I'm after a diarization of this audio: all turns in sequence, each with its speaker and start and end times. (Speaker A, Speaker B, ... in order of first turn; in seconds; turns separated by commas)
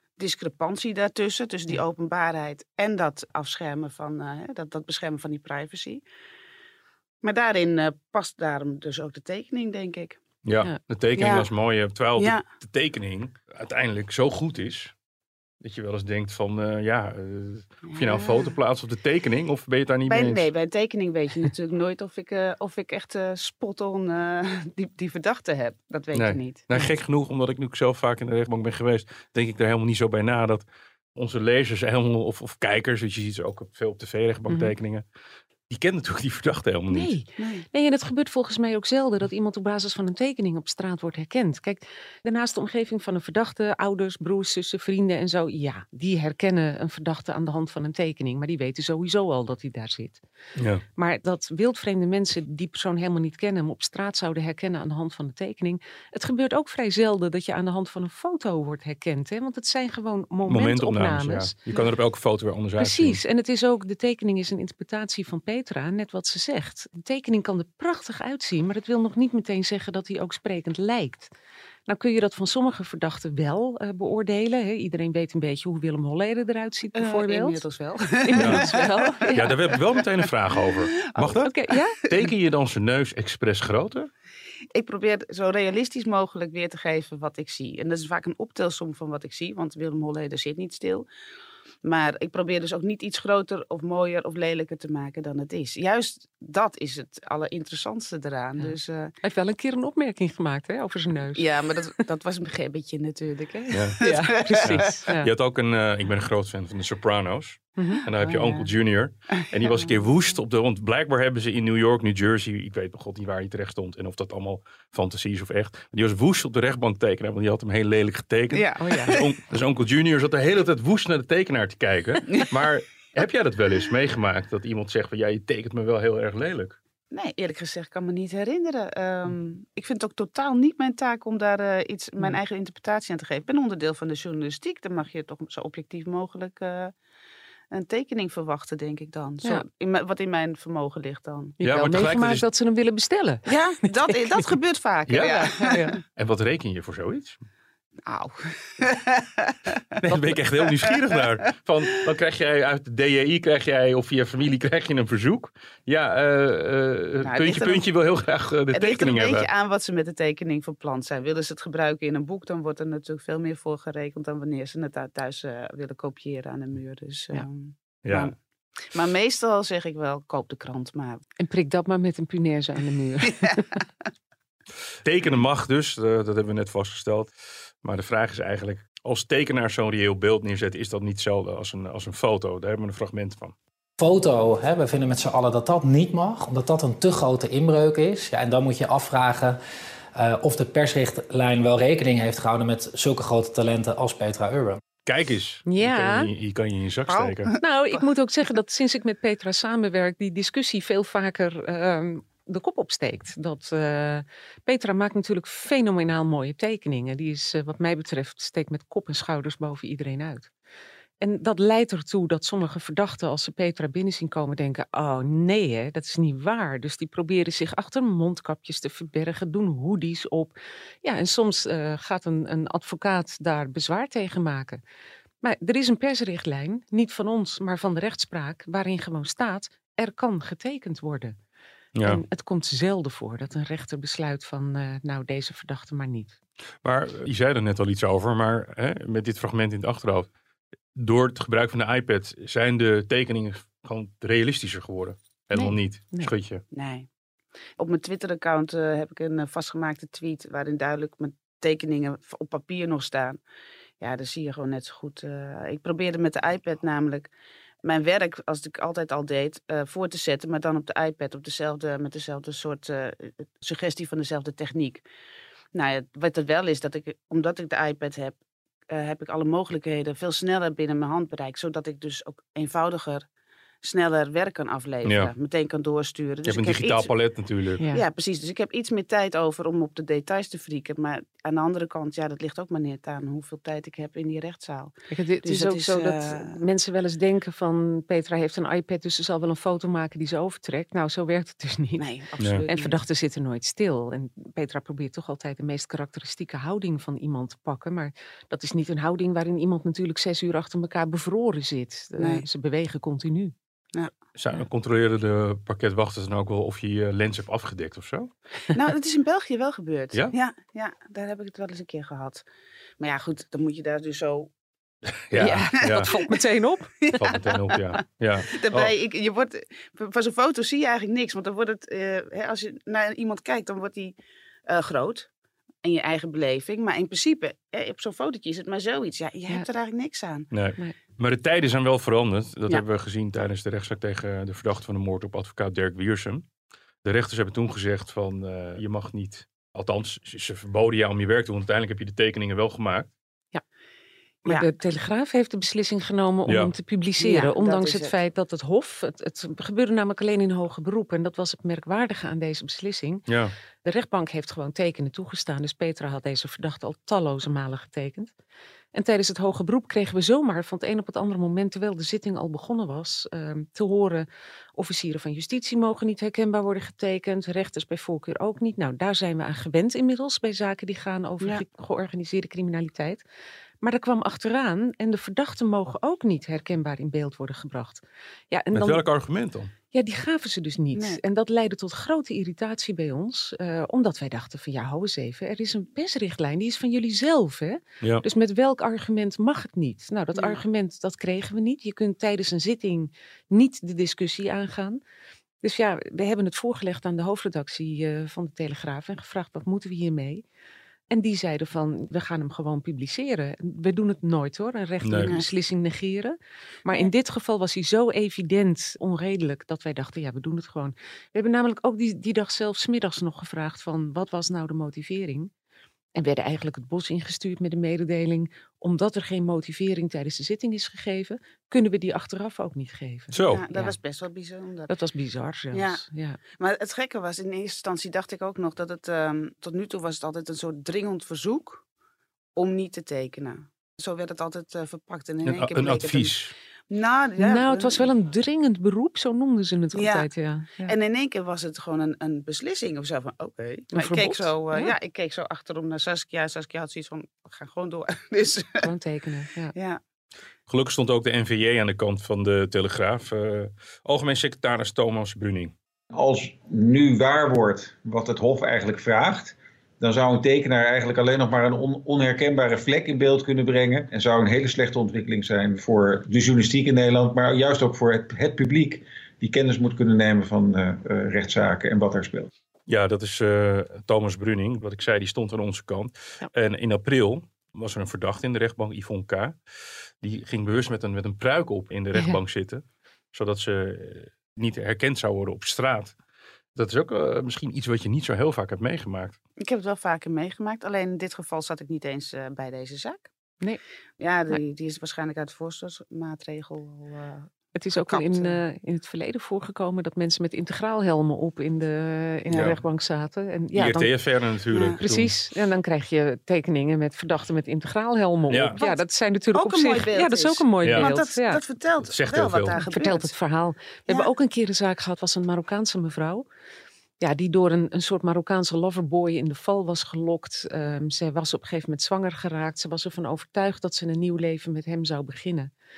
Speaker A: 0.2-6.0, Speaker A: 7.2-10.2, Speaker B: 10.4-14.9, Speaker A: 11.2-11.5, Speaker B: 15.6-20.5, Speaker A: 17.9-18.4, Speaker A: 20.1-26.7, Speaker B: 26.1-30.6, Speaker B: 31.1-35.0, Speaker B: 35.7-37.1, Speaker C: 36.9-50.2, Speaker A: 37.4-37.6, Speaker B: 50.6-50.8, Speaker C: 51.0-61.6, Speaker B: 60.5-63.2, Speaker C: 62.8-71.3, Speaker C: 71.9-77.6, Speaker A: 77.0-79.8, Speaker C: 78.2-79.6, Speaker B: 78.3-78.7, Speaker B: 79.3-84.1, Speaker A: 81.0-81.5, Speaker C: 81.4-82.0, Speaker A: 84.8-91.1, Speaker A: 91.8-99.2, Speaker C: 98.6-101.4, Speaker A: 101.4-105.0, Speaker B: 103.7-104.0, Speaker C: 104.0-105.3, Speaker B: 104.6-126.8, Speaker C: 107.8-108.0, Speaker A: 108.2-108.7, Speaker A: 109.6-109.9, Speaker A: 118.5-119.2, Speaker C: 118.8-119.2, Speaker A: 127.1-136.9, Speaker A: 137.7-141.6, Speaker C: 141.6-144.6, Speaker B: 141.6-142.4, Speaker A: 143.5-145.8, Speaker B: 145.1-145.5, Speaker C: 145.5-146.0, Speaker B: 146.1-147.4, Speaker A: 148.1-150.0, Speaker B: 150.0-159.5, Speaker A: 157.2-157.8, Speaker A: 158.7-168.3, Speaker B: 168.1-168.3, Speaker A: 168.9-171.2, Speaker C: 171.4-173.7, Speaker A: 173.4-173.8, Speaker B: 175.0-177.3, Speaker B: 177.8-183.6, Speaker D: 184.0-189.6, Speaker D: 190.2-194.8, Speaker B: 195.1-197.6, Speaker C: 195.7-196.3, Speaker A: 197.1-198.0, Speaker C: 197.6-210.5, Speaker C: 211.2-224.8, Speaker C: 225.4-231.4, Speaker B: 231.9-232.2, Speaker C: 232.0-236.4, Speaker B: 236.8-240.3, Speaker B: 241.0-246.6, Speaker C: 245.5-246.3, Speaker A: 246.7-247.1, Speaker A: 247.8-253.4, Speaker A: 254.0-257.3, Speaker A: 257.8-265.0, Speaker A: 265.7-268.4, Speaker A: 268.9-273.3, Speaker A: 273.8-277.1, Speaker B: 275.0-275.3, Speaker B: 276.5-277.8, Speaker C: 277.8-278.0, Speaker A: 277.9-286.6, Speaker C: 285.1-292.1, Speaker A: 292.0-293.0, Speaker C: 292.7-303.5, Speaker A: 302.2-302.4, Speaker B: 304.4-308.3, Speaker A: 308.7-312.4, Speaker A: 313.0-314.5, Speaker B: 315.3-316.1, Speaker A: 315.4-316.0, Speaker C: 315.4-317.4, Speaker A: 317.0-317.6, Speaker B: 317.2-318.9, Speaker A: 318.5-325.3, Speaker A: 325.8-330.5, Speaker B: 330.5-336.4, Speaker B: 337.0-343.1, Speaker C: 344.4-353.2, Speaker B: 346.5-346.7, Speaker A: 347.2-348.2, Speaker B: 353.3-353.5, Speaker C: 353.8-358.3, Speaker C: 358.9-373.2, Speaker C: 373.8-379.0, Speaker B: 378.7-379.7, Speaker C: 379.9-395.0, Speaker C: 395.6-400.4, Speaker C: 401.1-415.5, Speaker B: 405.0-405.4, Speaker C: 416.2-423.9, Speaker B: 423.3-423.6, Speaker A: 423.5-424.9, Speaker C: 424.9-426.4, Speaker A: 425.7-431.8, Speaker A: 432.6-436.3, Speaker B: 435.4-436.5, Speaker A: 436.9-438.1, Speaker C: 437.4-440.9, Speaker A: 439.9-440.3, Speaker A: 440.8-448.9, Speaker C: 443.9-444.9, Speaker C: 448.8-449.7, Speaker A: 449.8-450.0, Speaker B: 450.7-455.7, Speaker E: 456.1-472.5, Speaker B: 472.9-479.6, Speaker B: 480.2-486.1, Speaker B: 486.8-489.4, Speaker A: 489.6-493.3, Speaker A: 494.2-498.6, Speaker C: 497.8-504.1, Speaker B: 502.5-502.8, Speaker B: 503.8-505.3, Speaker A: 504.7-505.0, Speaker C: 505.0-511.6, Speaker B: 508.5-508.8, Speaker A: 509.5-513.3, Speaker B: 510.8-511.1, Speaker B: 512.0-512.8, Speaker C: 512.8-516.5, Speaker C: 517.2-525.7